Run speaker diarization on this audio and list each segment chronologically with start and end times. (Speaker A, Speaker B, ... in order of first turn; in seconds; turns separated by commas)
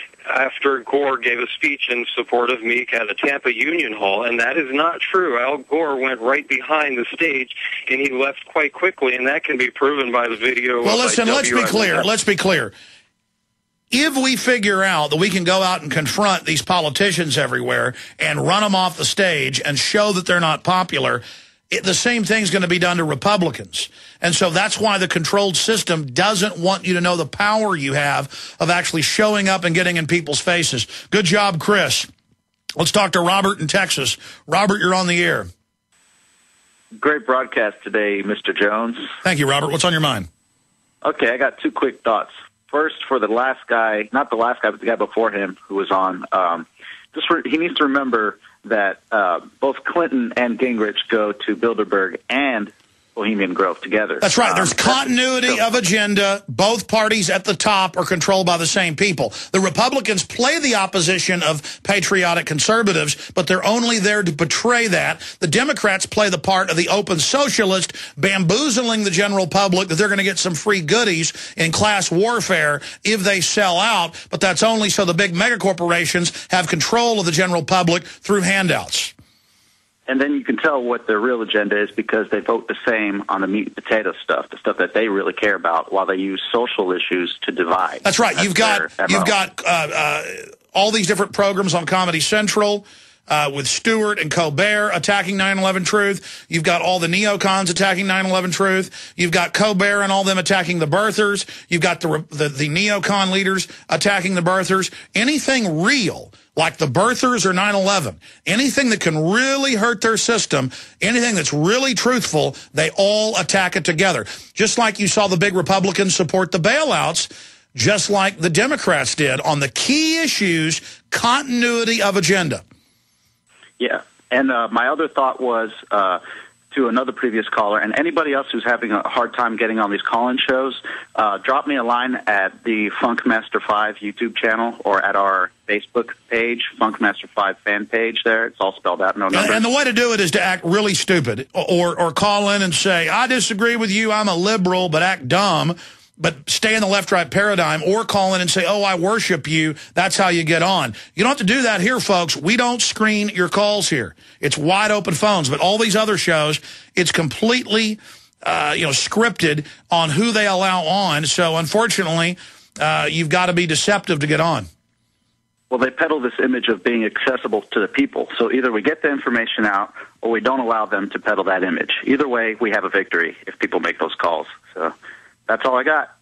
Speaker A: 0.3-12.1, Speaker B: 10.8-12.7, Speaker B: 13.9-32.1, Speaker B: 32.8-35.5, Speaker C: 37.0-39.0, Speaker B: 39.2-40.3, Speaker C: 41.0-55.7, Speaker B: 54.2-79.1, Speaker C: 80.1-89.3, Speaker B: 88.0-122.6, Speaker C: 123.8-126.2, Speaker C: 126.7-139.6, Speaker B: 139.3-164.7, Speaker C: 165.7-174.9, Speaker C: 175.5-176.1